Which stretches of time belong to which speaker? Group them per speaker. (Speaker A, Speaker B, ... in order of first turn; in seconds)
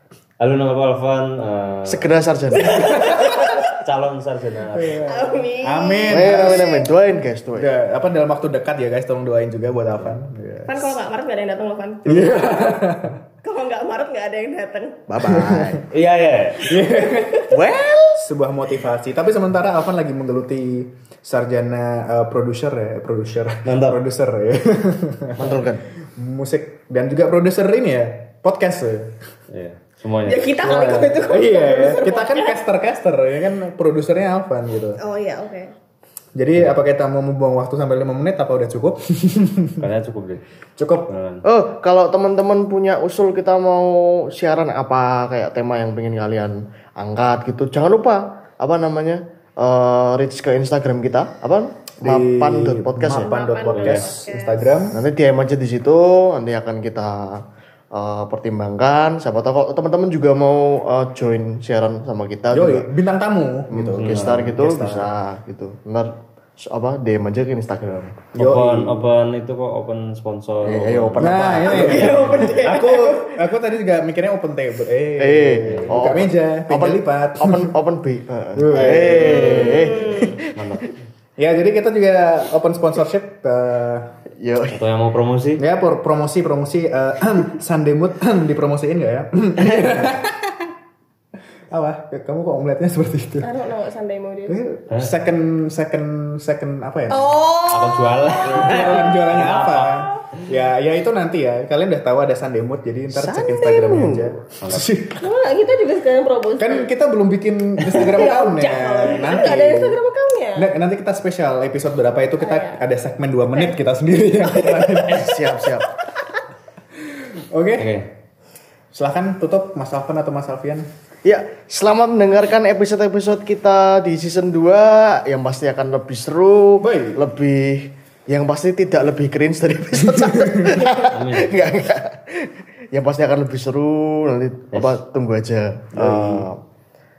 Speaker A: 0.4-2.2, 3.7-5.0, 15.9-16.6, 23.6-24.0, 29.5-30.6, 39.8-40.4, 41.1-41.4, 53.7-54.1, 64.1-64.6, 68.5-71.3, 80.5-80.8, 84.7-85.6, 97.7-100.4, 104.6-104.9, 117.8-118.1, 131.1-131.5
Speaker B: 1.8-2.9, 6.1-7.7, 15.1-15.9, 17.5-18.3, 25.4-25.9, 41.5-53.3, 54.9-57.4, 57.9-62.9, 63.7-68.2, 70.6-72.6, 75.2-80.7, 84.4-84.8, 89.7-90.1, 103.1-104.3, 114.7-115.9, 121.2-136.6
Speaker C: 2.6-3.7, 5.0-6.9, 10.7-12.9, 13.4-15.1, 16.9-17.4, 30.3-32.6, 35.0-35.8, 53.2-54.7, 71.6-73.3, 79.3-80.4, 93.4-94.6, 97.1-99.3, 105.2-106.9, 107.8-110.7, 112.4-112.8
Speaker D: 4.7-6.8, 7.5-11.0, 12.1-13.2, 15.2-15.9, 16.6-17.5, 18.2-25.6, 26.1-29.2, 30.6-35.0, 36.3-39.9, 40.8-41.1, 52.0-55.0, 62.5-65.1, 68.3-69.1, 71.2-77.8, 78.5-79.9, 81.4-84.2, 85.6-90.7, 91.7-93.5, 94.5-97.3, 98.5-105.2, 106.6-110.0, 110.5-115.4, 117.1-118.0, 118.9-120.9, 126.8-127.2, 130.2-130.7, 135.9-136.5